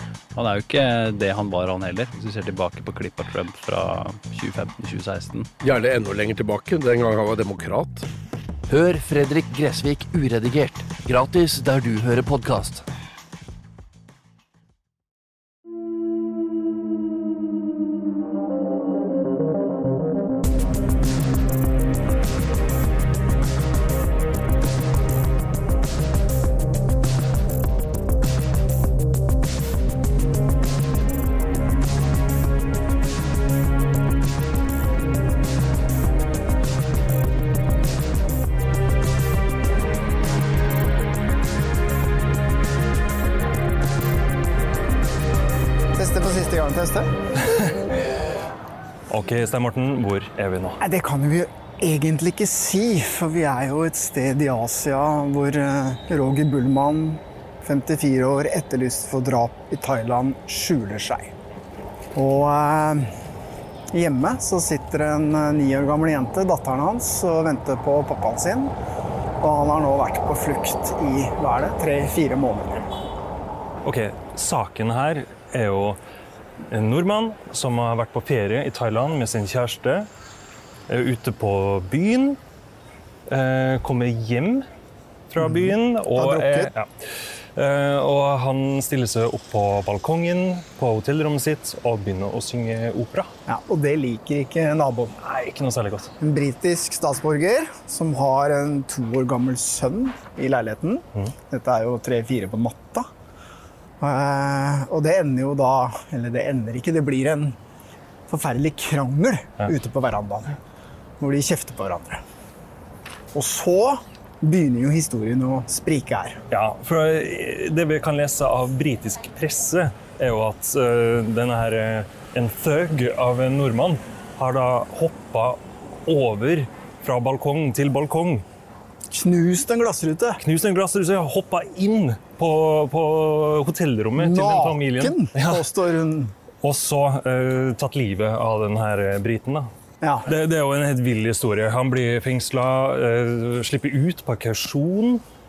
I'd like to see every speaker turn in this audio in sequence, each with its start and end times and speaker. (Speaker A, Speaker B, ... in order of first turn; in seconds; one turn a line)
Speaker A: 0.3-5.5
Speaker B: 5.6-8.0
Speaker C: 8.7-12.8
Speaker D: 46.0-47.1
Speaker E: 49.1-50.8
Speaker D: 50.8-61.3
Speaker D: 62.1-63.1
Speaker D: 63.9-68.8
Speaker D: 69.4-72.9
Speaker E: 73.8-76.0
Speaker E: 76.7-80.1
Speaker E: 80.9-82.4
Speaker E: 83.3-84.7
Speaker E: 85.3-86.9
Speaker D: 85.4-86.7
Speaker E: 87.5-93.3
Speaker D: 93.5-95.1
Speaker E: 95.2-96.1
Speaker D: 96.2-103.1
Speaker D: 104.0-107.6
Speaker D: 108.3-110.6
Speaker D: 111.2-112.2
Speaker D: 113.3-116.4
Speaker E: 116.5-128.4
Speaker D: 129.1-130.4
Speaker E: 130.4-135.6
Speaker D: 134.2-136.3
Speaker E: 136.6-139.7
Speaker D: 140.0-140.3
Speaker E: 140.3-145.2